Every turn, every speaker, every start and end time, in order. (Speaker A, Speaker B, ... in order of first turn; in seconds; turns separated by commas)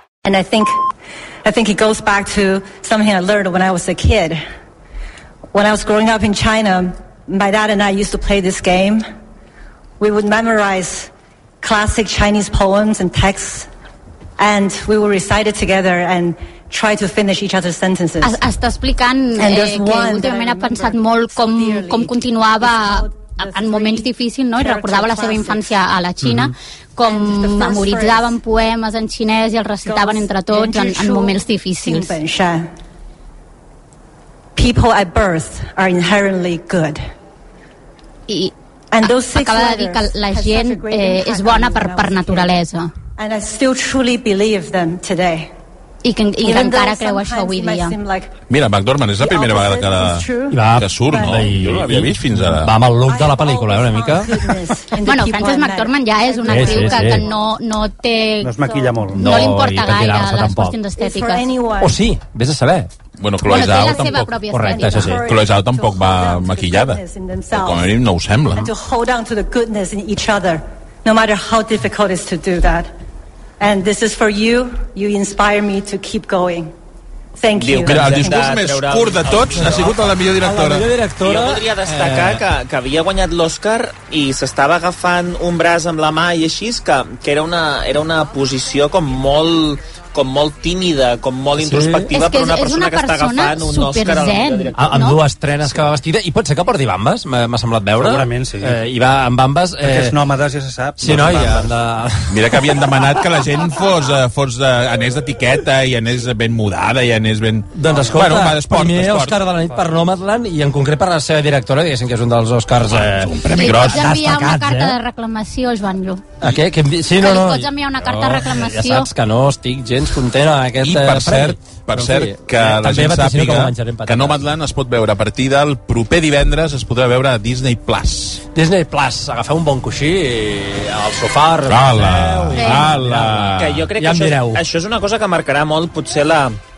Speaker A: 0.2-0.8, Speaker A: 1.4-4.5, Speaker A: 5.5-9.1, Speaker A: 10.0-11.1, Speaker A: 11.6-13.7, Speaker A: 14.4-18.4, Speaker B: 18.2-32.1, Speaker A: 19.4-25.7, Speaker A: 27.0-28.3, Speaker A: 29.8-32.7, Speaker A: 34.5-37.0, Speaker B: 38.3-42.9, Speaker A: 38.9-42.5, Speaker A: 43.2-45.5, Speaker B: 46.0-48.0, Speaker A: 46.4-48.3, Speaker C: 48.5-52.8, Speaker A: 49.2-51.3, Speaker D: 50.5-54.5, Speaker A: 53.1-57.2, Speaker B: 55.0-61.5, Speaker D: 56.5-57.3, Speaker E: 58.4-59.2, Speaker D: 59.1-60.8, Speaker A: 61.0-62.0, Speaker D: 61.8-62.9, Speaker C: 63.2-64.5, Speaker B: 63.4-65.2, Speaker D: 63.9-65.2, Speaker A: 64.7-68.0, Speaker C: 65.2-68.7, Speaker A: 68.5-72.9, Speaker A: 73.6-76.7, Speaker A: 77.4-78.4, Speaker F: 77.6-80.1, Speaker C: 77.8-80.9, Speaker D: 80.4-82.4, Speaker F: 81.2-94.8, Speaker D: 91.6-92.1, Speaker B: 92.1-95.2, Speaker D: 94.8-100.1, Speaker E: 98.0-98.8, Speaker E: 99.8-101.7, Speaker D: 101.0-102.8, Speaker C: 102.3-109.4, Speaker D: 107.7-115.0, Speaker E: 109.6-109.9, Speaker C: 112.8-114.1, Speaker B: 113.5-116.2, Speaker D: 116.4-124.5, Speaker B: 117.2-119.1, Speaker C: 120.8-128.4, Speaker D: 128.6-134.6, Speaker C: 131.7-133.8, Speaker B: 132.6-132.9, Speaker F: 133.6-136.6